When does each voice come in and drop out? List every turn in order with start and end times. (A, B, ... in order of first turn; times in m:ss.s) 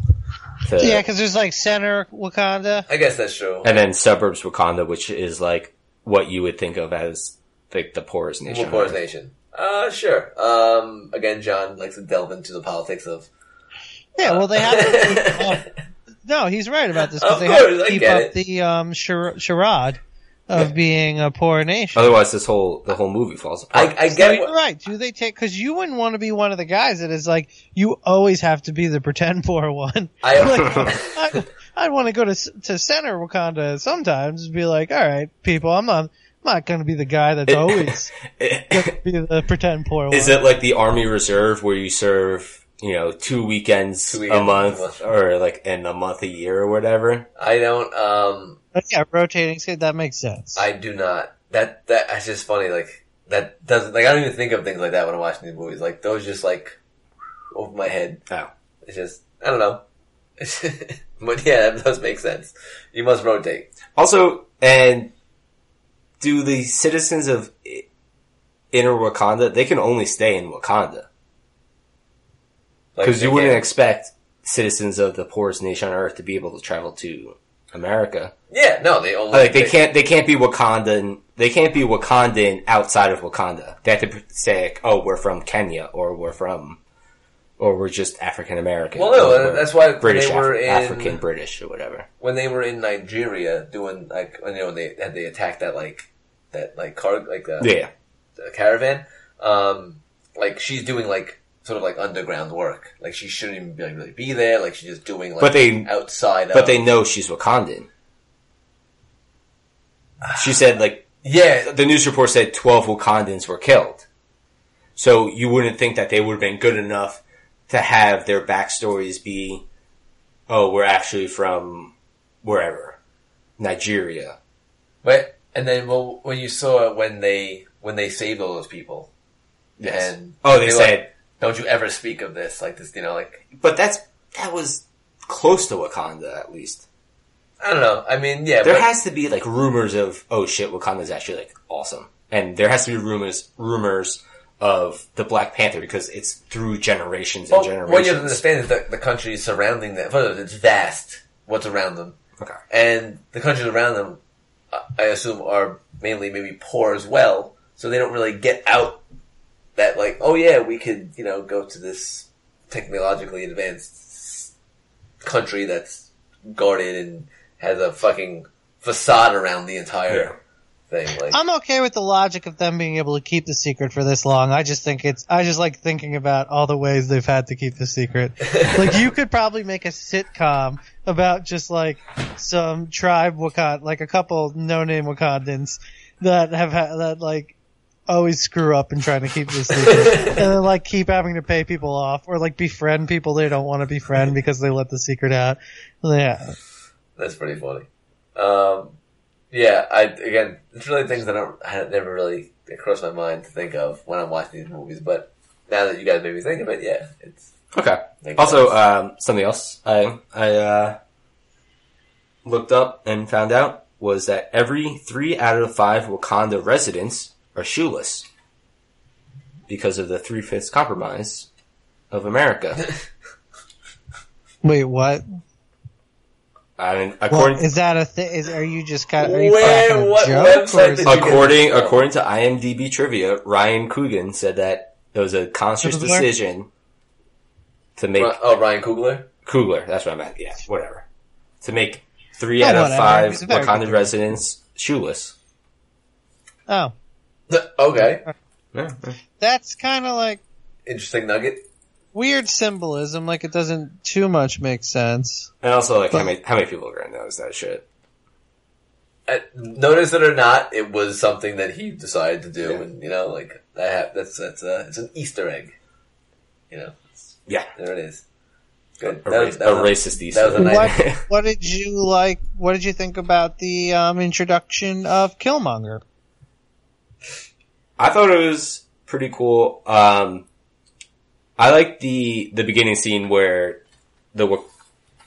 0:00.6-0:01.0 A
0:00.8-0:02.9 B
0:02.9-0:03.7 C
0:03.6-0:09.0 A
0:08.5-0:13.3 C
0:14.2-0:15.7 B
0:14.2-0:15.7 C
0:16.2-0:22.1 B
0:17.2-0:18.3 C
0:21.9-0:24.2 A
0:23.7-0:24.5 C
0:24.2-0:40.4 B
0:30.2-0:31.3 C
0:37.5-0:38.9 A
0:40.1-0:47.3 A
0:44.1-0:45.0 C
0:47.4-0:48.6 C
0:48.8-0:50.6 B
0:50.6-0:56.7 C
0:57.5-0:58.2 C
0:58.8-0:59.8 C
1:00.4-1:03.7 C
1:04.0-1:05.1 A
1:06.2-1:07.8 A
1:08.7-1:11.1 A
1:12.9-1:13.6 C
1:13.0-1:18.3 A
1:18.5-1:19.8 C
1:19.3-1:26.8 A
1:27.6-1:32.1 A
1:28.9-1:31.2 C
1:32.2-1:37.7 C
1:37.6-1:37.9 A
1:38.4-1:46.8 C
1:45.4-1:45.9 A
1:46.5-1:47.9 A
1:50.3-1:51.1 A
1:51.2-1:51.7 C
1:51.6-1:54.0 A
1:55.0-1:59.6 A
2:00.5-2:03.0 A
2:03.6-2:04.4 A
2:05.0-2:09.1 C
2:09.8-2:11.1 A
2:09.8-2:13.4 C
2:13.5-2:16.8 A
2:17.6-2:18.9 C
2:18.6-2:28.4 A
2:27.5-2:32.2 C
2:32.7-2:34.2 C
2:34.7-2:39.0 C
2:39.8-2:44.5 C
2:45.2-2:50.3 C
2:50.9-2:51.4 C
2:51.3-3:07.5 B
3:08.1-3:16.6 B
3:09.8-3:10.4 C
3:17.2-3:19.0 C
3:19.5-3:27.5 C
3:27.7-3:31.0 A
3:28.2-3:28.8 C
3:32.4-3:38.3 A
3:39.7-3:41.5 A
3:42.1-3:42.8 A
3:44.6-3:45.2 B
3:46.8-3:47.6 A
3:47.3-3:51.4 B
3:49.2-3:52.0 C
3:51.0-3:56.7 A
3:55.8-3:56.2 B
3:58.0-3:58.4 A
3:58.2-3:59.3 C
3:59.4-4:01.0 A
4:01.6-4:05.3 A
4:02.6-4:04.1 B
4:06.7-4:06.9 B
4:07.5-4:08.2 C
4:08.7-4:09.2 A
4:09.4-4:10.4 B
4:10.8-4:11.6 C
4:12.1-4:15.5 B
4:15.6-4:17.8 A
4:19.3-4:25.7 C
4:26.7-4:28.2 C
4:29.0-4:30.9 C
4:29.2-4:31.2 A
4:30.6-4:36.0 B
4:38.0-4:40.4 A
4:41.6-4:43.8 A
4:44.3-4:44.6 A